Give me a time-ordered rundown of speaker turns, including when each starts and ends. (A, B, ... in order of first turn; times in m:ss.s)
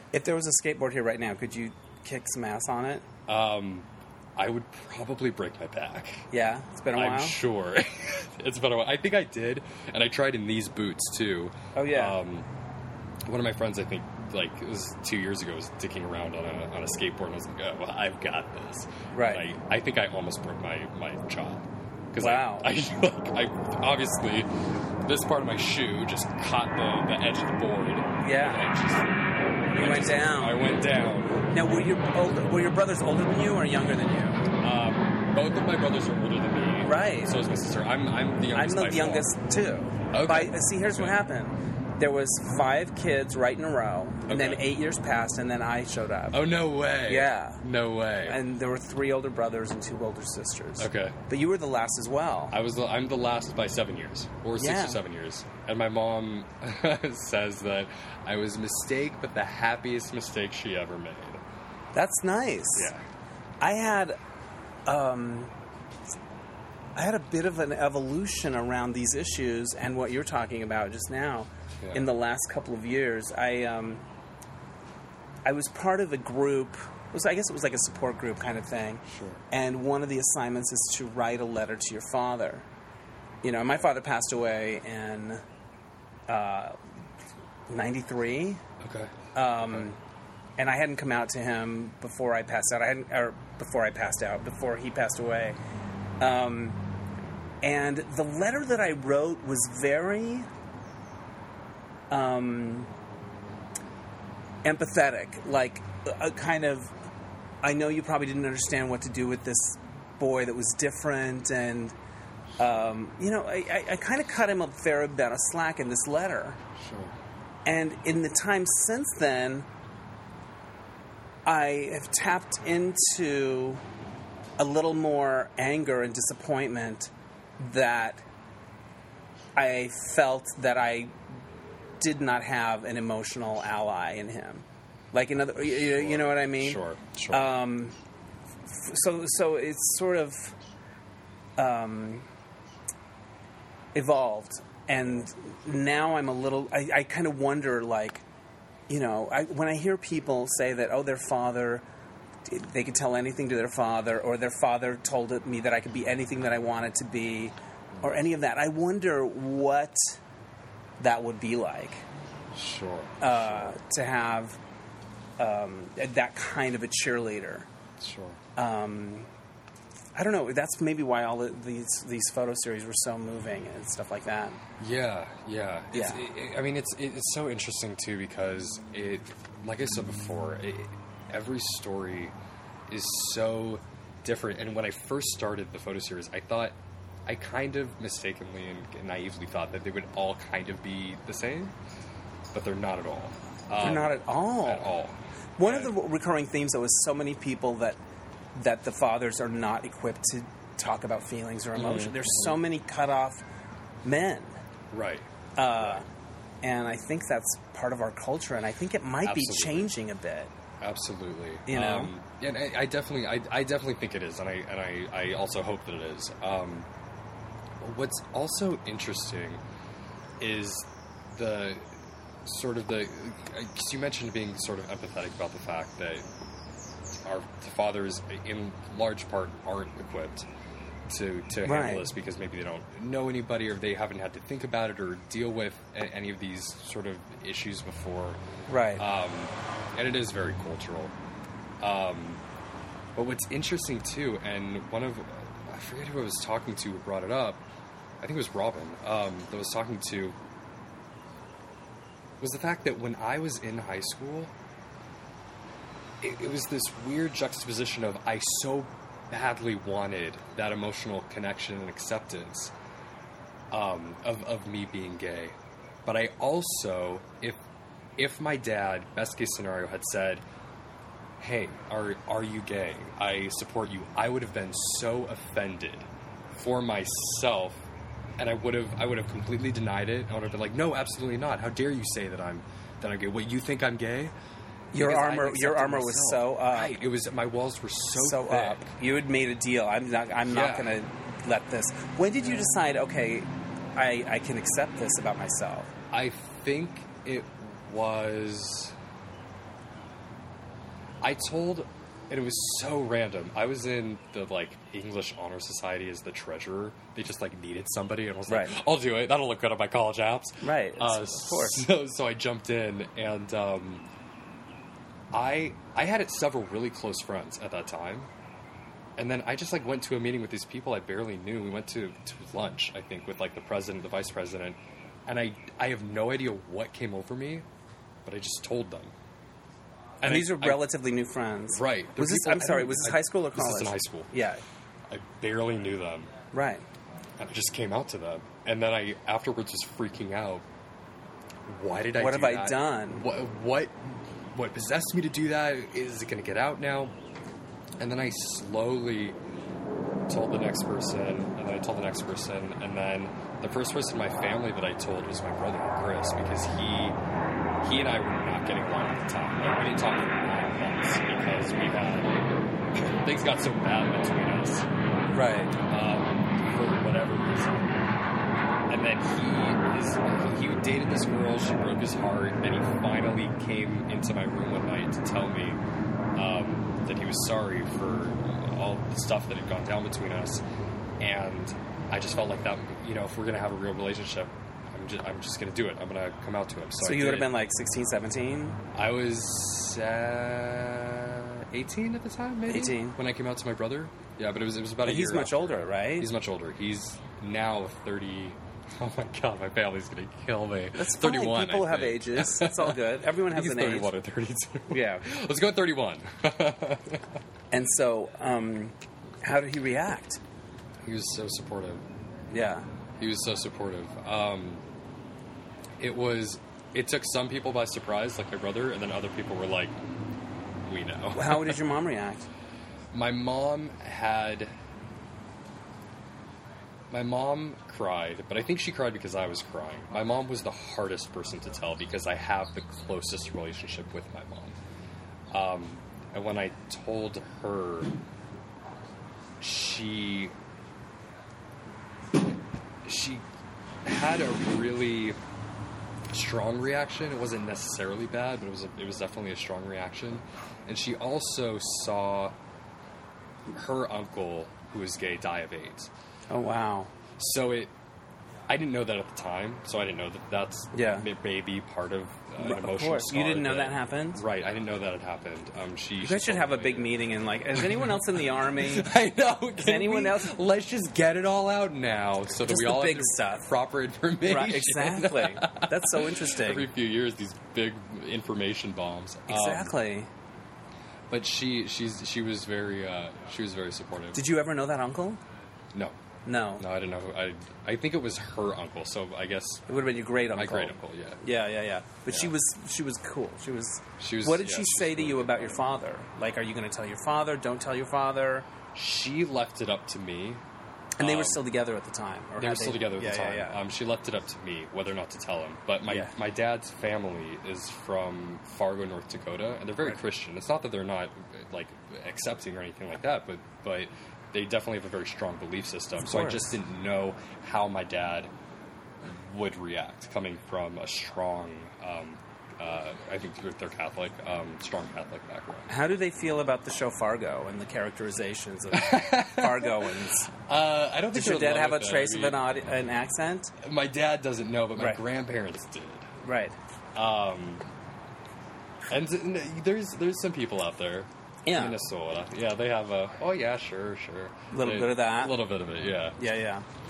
0:00.1-0:03.0 A
0:03.3-0:06.3 B
0:06.3-0:07.4 A
0:06.9-0:12.5 B
0:11.7-0:12.2 A
0:13.3-0:24.5 B
0:19.1-0:19.4 A
0:22.2-0:22.7 A
0:25.0-0:29.1 B
0:28.2-0:28.6 A
0:29.7-0:30.6 A
0:29.7-0:31.5 B
0:31.5-0:34.5 A
0:34.6-0:39.3 B
0:36.8-0:37.3 A
0:38.5-0:46.4 A
0:40.1-0:41.1 B
0:44.2-0:44.6 B
0:46.3-0:48.4 B
0:47.0-0:47.6 A
0:48.2-0:52.5 A
0:50.8-0:51.2 B
0:52.5-1:01.4 B
0:54.6-0:55.0 A
1:01.9-1:02.9 A
1:02.7-1:03.0 B
1:03.6-1:04.2 A
1:04.9-1:05.5 A
1:07.0-1:14.0 A
1:11.8-1:12.1 B
1:15.4-1:22.7 A
1:19.1-1:19.4 B
1:23.4-1:25.4 A
1:26.3-1:26.8 A
1:27.7-1:28.6 A
1:28.8-1:29.9 B
1:29.3-1:30.0 A
1:30.6-1:35.6 A
1:36.2-1:36.8 A
1:37.6-1:40.5 A
1:42.1-1:42.9 A
1:44.6-1:46.9 A
1:47.6-1:51.9 A
1:52.6-1:56.6 A
1:56.8-1:57.1 B
1:57.6-1:59.7 A
2:01.4-2:03.8 A
2:04.6-2:08.2 A
2:09.6-2:11.2 A
2:12.0-2:18.0 A
2:15.6-2:17.5 B
2:18.7-2:20.5 A
2:21.6-2:22.3 A
2:23.9-2:28.2 A
2:28.9-2:31.8 A
2:32.4-2:40.2 A
2:41.0-2:42.0 A
2:42.5-2:43.8 B
2:43.2-2:44.6 A
2:45.4-2:47.7 A
2:48.0-2:48.4 B
2:48.6-2:49.3 A
2:50.2-2:54.6 A
2:54.8-3:02.3 B
2:55.9-2:56.2 A
3:02.9-3:06.8 B
3:07.3-3:11.7 B
3:12.5-3:15.9 B
3:13.8-3:14.9 A
3:15.6-3:18.0 A
3:18.5-3:23.4 A
3:21.7-3:22.6 B
3:24.0-3:24.6 A
3:24.9-3:26.0 B
3:25.6-3:26.0 A
3:26.6-3:30.5 A
3:29.2-3:29.9 B
3:30.8-3:36.9 B
3:31.7-3:32.1 A
3:37.8-3:39.6 B
3:40.4-3:46.3 B
3:47.1-3:50.4 B
3:51.1-3:58.4 B
3:51.6-3:52.1 A
3:58.7-3:59.0 A
3:59.0-4:01.1 B
4:01.8-4:02.4 B
4:03.2-4:07.6 B
4:08.2-4:10.4 B
4:12.4-4:14.5 B
4:16.2-4:22.7 B
4:23.7-4:27.6 B
4:28.2-4:30.4 B
4:31.4-4:37.8 B
4:38.4-4:44.3 B
4:44.9-4:47.0 A
4:44.9-4:48.9 B
4:48.2-4:55.9 A
4:50.4-4:51.0 B
4:56.1-4:58.9 B
5:01.2-5:14.0 B
5:08.5-5:08.7 A
5:10.6-5:11.8 A
5:15.3-5:18.3 B
5:19.2-5:27.6 B
5:28.2-5:29.1 B
5:30.2-5:30.9 B
5:30.2-5:34.6 A
5:31.7-5:34.3 B
5:35.1-5:36.3 B
5:36.5-5:36.8 A
5:37.4-5:40.6 B
5:41.7-5:47.1 B
5:42.2-5:43.2 A
5:48.0-5:49.4 B
5:50.3-5:57.2 B
5:57.8-6:04.9 B
6:05.3-6:05.8 A
6:05.8-6:07.9 B
6:08.9-6:15.8 B
6:16.3-6:20.6 B
6:21.2-6:27.5 B
6:27.0-6:28.8 A
6:28.9-6:47.4 B
6:32.7-6:33.2 A
6:35.0-6:36.3 A
6:41.0-6:44.1 A
6:44.9-6:45.2 A
6:47.7-6:50.4 A
6:51.0-6:52.0 B
6:52.5-6:52.8 A
6:53.2-6:54.8 B
6:56.0-6:59.9 B
7:00.8-7:01.8 B
7:01.3-7:02.5 A
7:03.1-7:04.7 B
7:07.1-7:14.8 B
7:15.5-7:18.1 B
7:19.6-7:20.5 B
7:23.0-7:23.4 B
7:24.0-7:25.4 B
7:26.3-7:32.5 B
7:33.7-7:36.1 B
7:36.5-7:37.1 A
7:37.4-7:37.9 B
7:38.7-7:47.2 B
7:40.9-7:41.2 A
7:42.6-7:44.4 A
7:46.2-7:49.1 A
7:47.7-7:59.9 B
7:49.8-7:50.5 A
7:52.6-7:53.7 A
7:54.4-7:56.9 A
7:59.5-8:00.3 A
8:01.3-8:04.4 B
8:04.3-8:05.4 A
8:05.9-8:06.2 B
8:06.4-8:06.8 A
8:06.8-8:09.9 B
8:09.9-8:18.7 A
8:10.5-8:11.4 B
8:14.2-8:15.8 B
8:18.9-8:20.6 B
8:21.2-8:23.8 A
8:21.2-8:21.6 B
8:22.6-8:38.5 B
8:26.1-8:26.3 A
8:36.2-8:36.7 A
8:39.2-8:45.9 B
8:45.9-8:50.5 A
8:48.9-8:52.8 B
8:51.3-8:53.7 A
8:53.8-8:56.3 B
8:56.4-8:56.7 A
8:57.1-8:57.8 B
8:59.1-9:06.4 B
9:01.6-9:02.0 A
9:04.7-9:05.5 A
9:06.4-9:06.8 A